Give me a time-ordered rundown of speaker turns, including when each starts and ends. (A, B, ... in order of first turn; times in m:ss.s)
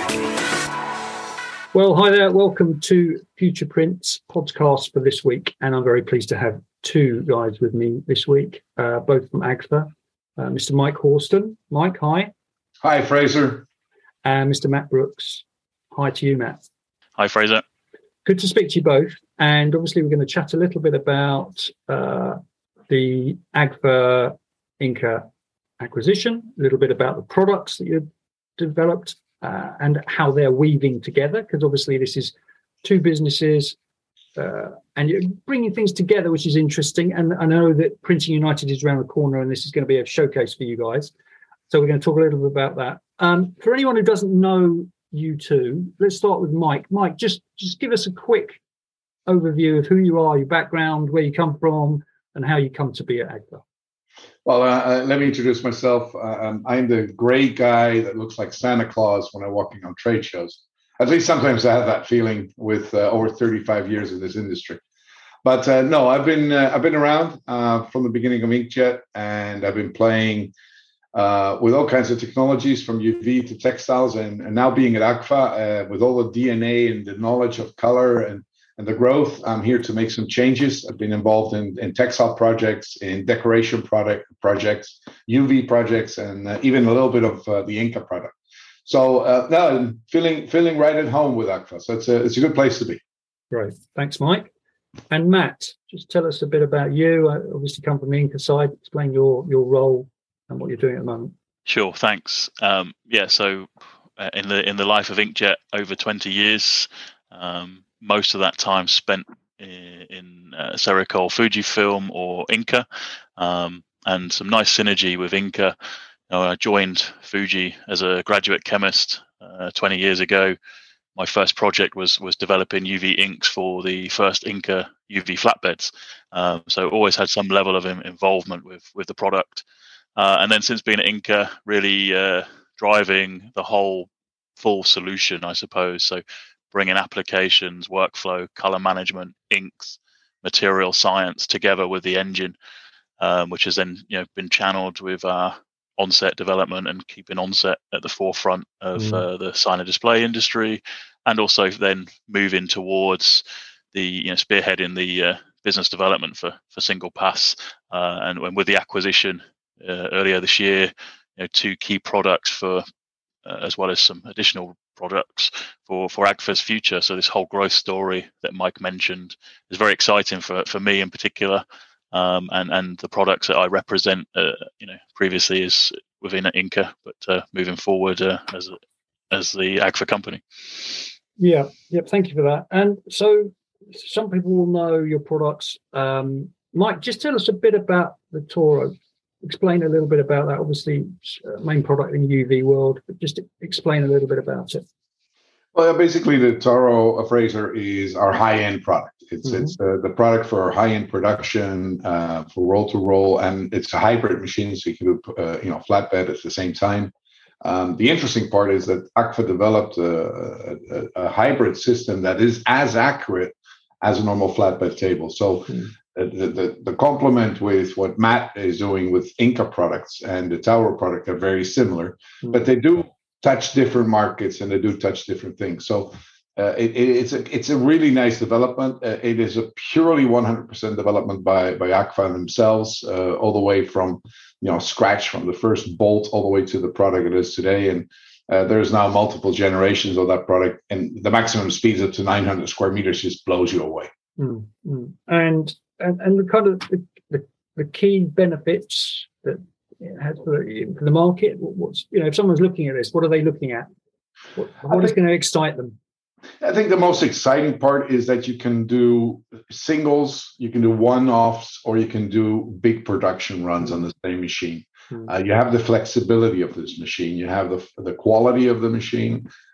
0:01.7-0:12.3 A
0:12.8-0:13.7 B
0:14.2-0:16.6 A
0:17.2-0:17.6 C
0:18.2-0:25.3 A
0:25.8-0:33.8 A
0:34.4-0:41.1 A
0:41.7-0:48.6 A
0:49.3-0:53.6 A
0:54.4-1:04.8 B
1:05.4-1:10.5 B
1:11.1-1:28.4 B
1:28.9-1:33.0 B
1:33.5-1:34.5 A
1:35.1-1:41.3 A
1:41.7-1:52.9 C
1:53.4-1:55.8 C
1:56.3-2:00.6 C
2:01.2-2:09.6 C
2:10.2-2:22.6 C
2:23.2-2:42.8 C
2:29.0-2:29.2 A
2:43.4-2:58.8 C
2:59.3-3:01.1 C
3:01.4-3:14.8 A
3:15.7-4:04.1 B
3:19.4-3:19.7 A
4:04.4-4:13.9 A
4:14.6-4:16.0 A
4:14.9-4:15.1 B
4:16.6-4:29.5 B